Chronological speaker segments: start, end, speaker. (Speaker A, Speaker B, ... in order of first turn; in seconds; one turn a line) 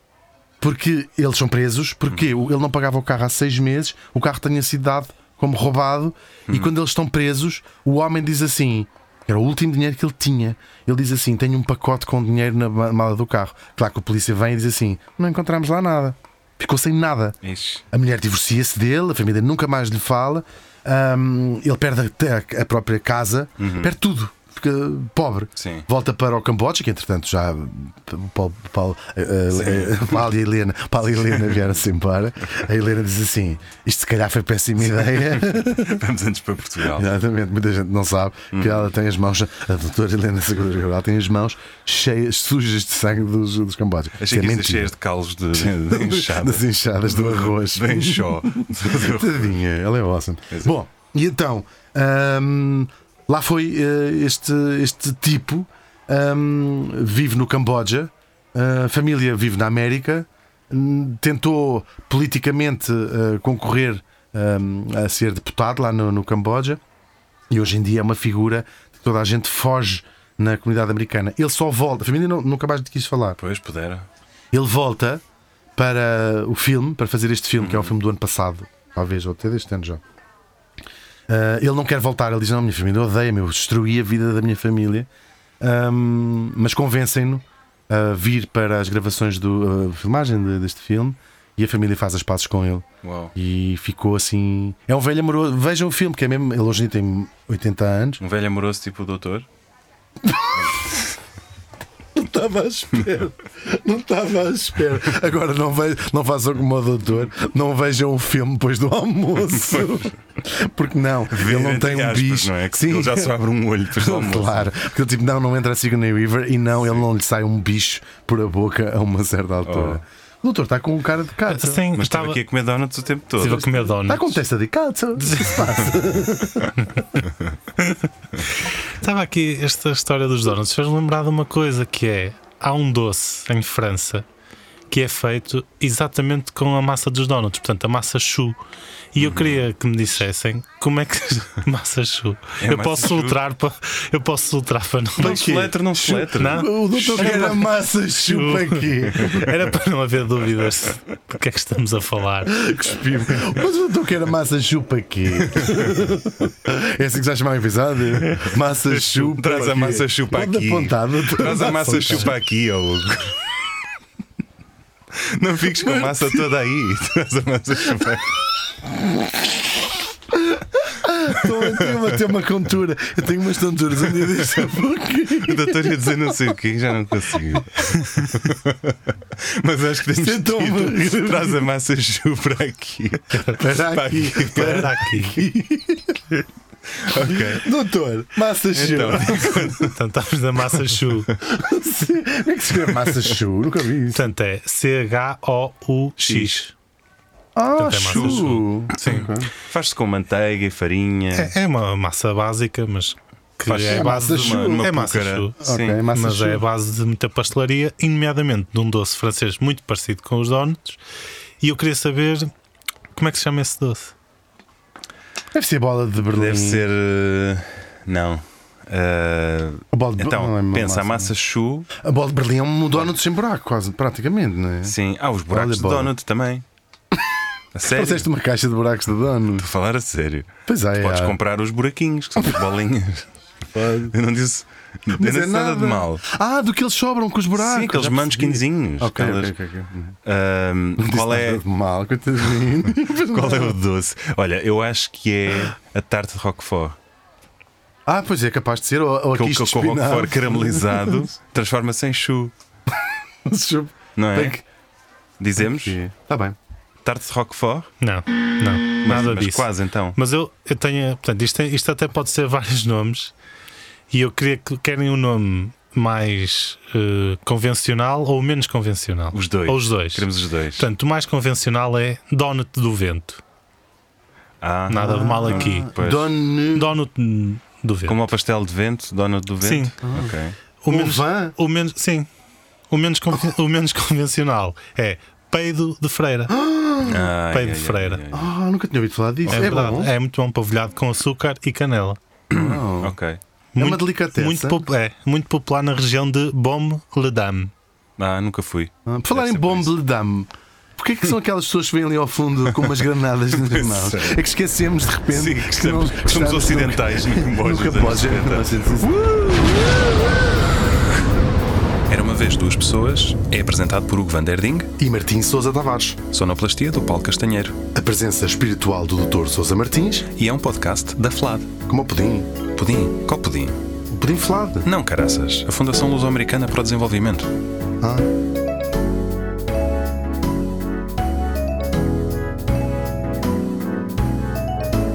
Speaker A: 0.6-17.4
Speaker B: 6.5-6.7
Speaker B: 17.4-17.9
Speaker A: 17.9-36.0
Speaker B: 23.6-23.9
Speaker B: 25.6-25.9
Speaker B: 29.5-30.3
Speaker B: 31.3-31.7
Speaker B: 34.9-37.1
Speaker A: 36.9-44.9
Speaker B: 38.5-38.9
Speaker B: 44.2-49.6
Speaker A: 45.5-66.8
Speaker A: 67.5-73.4
Speaker B: 73.4-74.1
Speaker A: 74.5-75.2
Speaker A: 75.8-80.0
Speaker B: 77.6-78.0
Speaker A: 81.3-85.1
Speaker A: 85.6-98.2
Speaker B: 93.0-93.3
Speaker B: 98.2-99.5
Speaker A: 100.3-101.0
Speaker A: 102.2-113.3
Speaker B: 111.3-114.7
Speaker A: 113.9-121.9
Speaker B: 119.7-120.0
Speaker C: 121.5-122.4
Speaker B: 121.9-123.9
Speaker C: 123.4-124.4
Speaker A: 123.8-126.7
Speaker C: 125.3-125.8
Speaker C: 127.8-128.4
Speaker C: 129.0-134.3
Speaker C: 134.9-138.6
Speaker C: 139.1-145.6
Speaker B: 139.2-139.7
Speaker B: 142.6-143.4
Speaker B: 145.2-147.6
Speaker A: 145.2-149.5
Speaker C: 146.3-152.5
Speaker A: 152.5-162.4
Speaker B: 155.6-155.8
Speaker B: 159.0-163.4
Speaker C: 161.6-162.3
Speaker B: 165.1-168.4
Speaker A: 165.8-166.4
Speaker A: 170.3-176.4
Speaker B: 171.5-171.9
Speaker B: 174.2-174.5
Speaker B: 175.3-184.9
Speaker A: 180.1-181.6
Speaker A: 183.3-186.2
Speaker C: 184.5-185.4
Speaker B: 187.0-187.7
Speaker A: 187.1-189.8
Speaker B: 188.7-190.0
Speaker C: 189.8-191.3
Speaker A: 191.4-194.3
Speaker B: 192.7-193.2
Speaker C: 194.1-196.7
Speaker B: 196.2-196.6
Speaker A: 197.6-199.5
Speaker C: 197.8-199.3
Speaker B: 198.1-201.5
Speaker C: 201.3-205.6
Speaker B: 203.7-206.0
Speaker A: 203.9-204.9
Speaker A: 205.6-206.6
Speaker C: 206.1-211.0
Speaker C: 211.6-212.5
Speaker C: 213.2-214.1
Speaker A: 215.5-216.9
Speaker B: 216.3-221.9
Speaker A: 219.9-221.3
Speaker A: 221.9-225.0
Speaker B: 224.8-226.7
Speaker A: 225.5-226.1
Speaker B: 227.7-228.3
Speaker A: 227.8-229.7
Speaker B: 229.6-233.3
Speaker A: 230.7-231.4
Speaker A: 233.7-234.1
Speaker B: 234.1-236.2
Speaker A: 235.1-240.2
Speaker B: 237.5-239.6
Speaker B: 240.2-241.6
Speaker A: 241.0-243.8
Speaker B: 242.6-247.0
Speaker A: 248.1-251.2
Speaker B: 249.3-252.5
Speaker A: 253.5-254.6
Speaker B: 254.2-254.6
Speaker B: 255.4-256.0
Speaker A: 255.6-256.6
Speaker B: 257.0-257.9
Speaker C: 258.0-263.3
Speaker B: 259.0-260.2
Speaker C: 264.1-273.4
Speaker B: 269.3-270.9
Speaker B: 274.6-276.3
Speaker C: 274.9-275.9
Speaker A: 275.0-276.9
Speaker C: 276.8-278.3
Speaker B: 278.1-280.6
Speaker C: 279.6-279.9
Speaker A: 280.0-280.4
Speaker C: 280.8-282.3
Speaker A: 280.9-281.6
Speaker C: 282.9-286.5
Speaker A: 286.5-287.3
Speaker B: 287.1-288.5
Speaker C: 287.4-288.2
Speaker A: 288.3-290.1
Speaker B: 289.4-289.9
Speaker C: 289.5-292.2
Speaker A: 292.5-293.1
Speaker B: 292.5-293.4
Speaker C: 293.8-297.7
Speaker A: 293.8-294.8
Speaker B: 298.2-299.9
Speaker A: 299.1-310.4
Speaker B: 303.5-304.4
Speaker B: 305.3-309.7
Speaker B: 312.1-314.9
Speaker A: 315.0-316.2
Speaker B: 316.3-317.8
Speaker A: 317.9-320.3
Speaker B: 320.3-321.7
Speaker A: 321.9-322.5
Speaker B: 322.8-323.8
Speaker A: 324.1-324.9
Speaker B: 324.8-327.5
Speaker A: 328.0-328.3